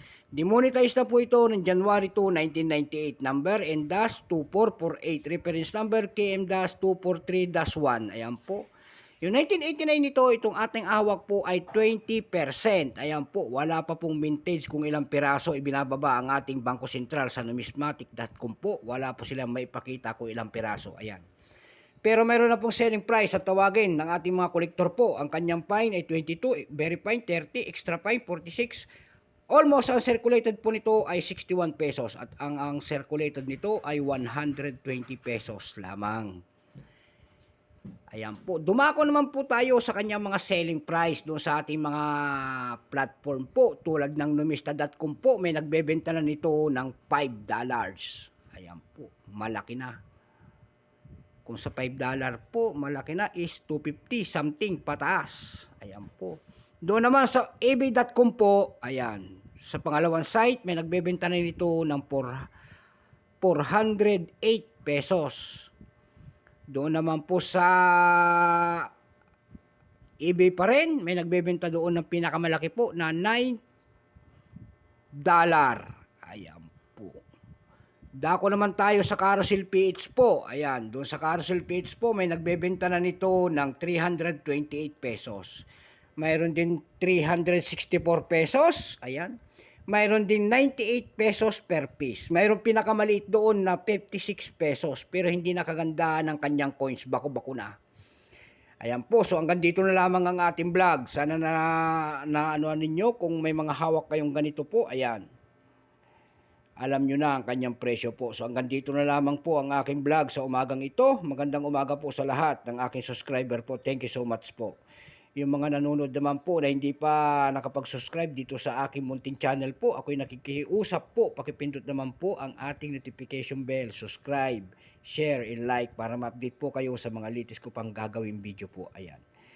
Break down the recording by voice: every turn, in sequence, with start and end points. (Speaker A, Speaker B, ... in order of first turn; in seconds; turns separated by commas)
Speaker A: 0.3-8.7, Speaker A: 9.2-21.2, Speaker A: 22.0-28.9, Speaker A: 29.5-36.4, Speaker A: 38.1-50.0, Speaker A: 51.4-62.5, Speaker A: 63.4-65.7, Speaker A: 66.7-68.9, Speaker A: 70.2-73.6, Speaker A: 75.2-77.2, Speaker A: 78.2-85.6, Speaker A: 86.2-89.3, Speaker A: 89.9-97.7, Speaker A: 98.8-105.2, Speaker A: 106.8-114.8, Speaker A: 115.4-129.2